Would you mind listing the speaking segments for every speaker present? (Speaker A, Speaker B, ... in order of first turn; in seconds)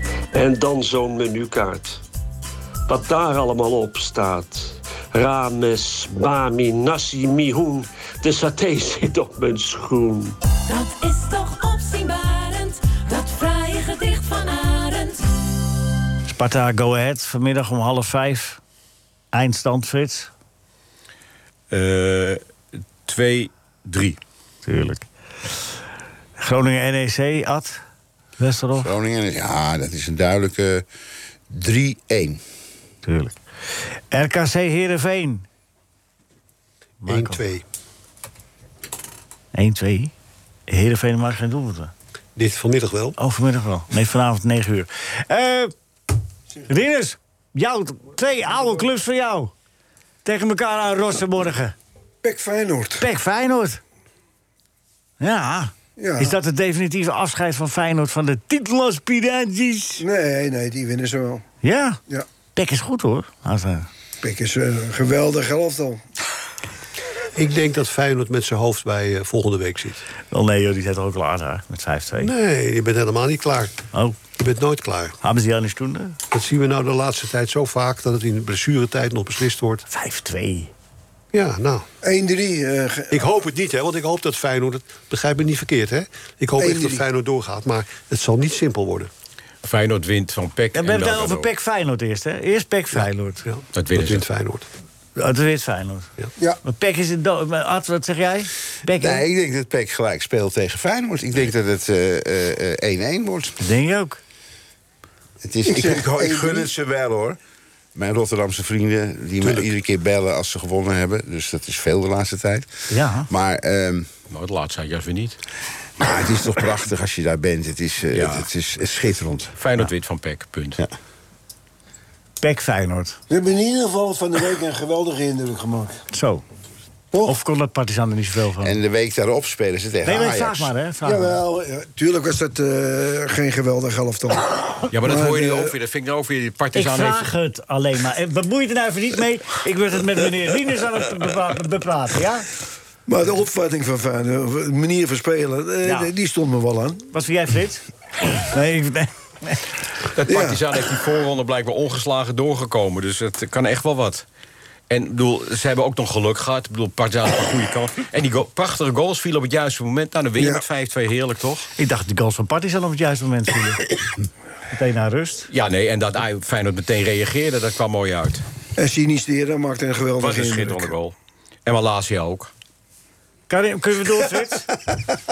Speaker A: 0.3-2.0, 2.9-10.4
Speaker B: 10.7-15.2
Speaker C: 16.2-18.6, 19.3-20.3, 24.6-25.1, 26.4-27.8, 28.4-28.9, 33.0-33.3, 34.1-35.4, 37.0-37.4, 39.5-40.1, 40.7-41.9, 43.2-45.7, 46.7-49.5, 50.2-51.7, 53.0-53.8, 55.2-60.0, 61.6-62.0, 62.5-63.9, 70.3-72.3, 75.2-76.2, 79.9-80.7, 90.7-93.4, 95.2-96.1, 96.6-99.2, 103.6-104.2, 112.9-113.3, 122.4-123.2, 126.1-126.4, 127.2-128.8, 130.0-131.4, 136.7-142.5, 145.8-146.1, 147.1-149.7, 161.8-163.8, 164.7-165.5, 173.5-174.7
Speaker D: 21.7-22.4, 23.0-24.2, 89.6-91.5, 93.7-94.2, 114.3-115.4, 118.1-118.5, 119.6-120.8, 134.9-137.3, 150.1-154.2, 154.9-161.7, 165.5-168.4, 170.2-171.1, 171.6-172.5
Speaker E: 28.8-30.9, 31.5-32.4, 98.9-103.6, 105.4-107.4, 107.9-112.7, 113.3-114.1, 116.0-119.6, 128.6-130.7
Speaker F: 37.0-37.6, 42.4-43.2, 67.3-70.0, 72.2-73.8, 74.4-75.1, 76.3-79.8, 81.3-81.8, 83.1-89.1, 93.4-94.7
Speaker G: 52.2-53.1, 56.0-56.4, 60.0-61.4, 64.2-66.0, 82.0-83.3, 86.6-87.0, 105.7-106.7, 123.3-126.0, 131.0-135.7, 143.1-147.0, 150.2-150.6, 160.4-160.6, 168.8-170.9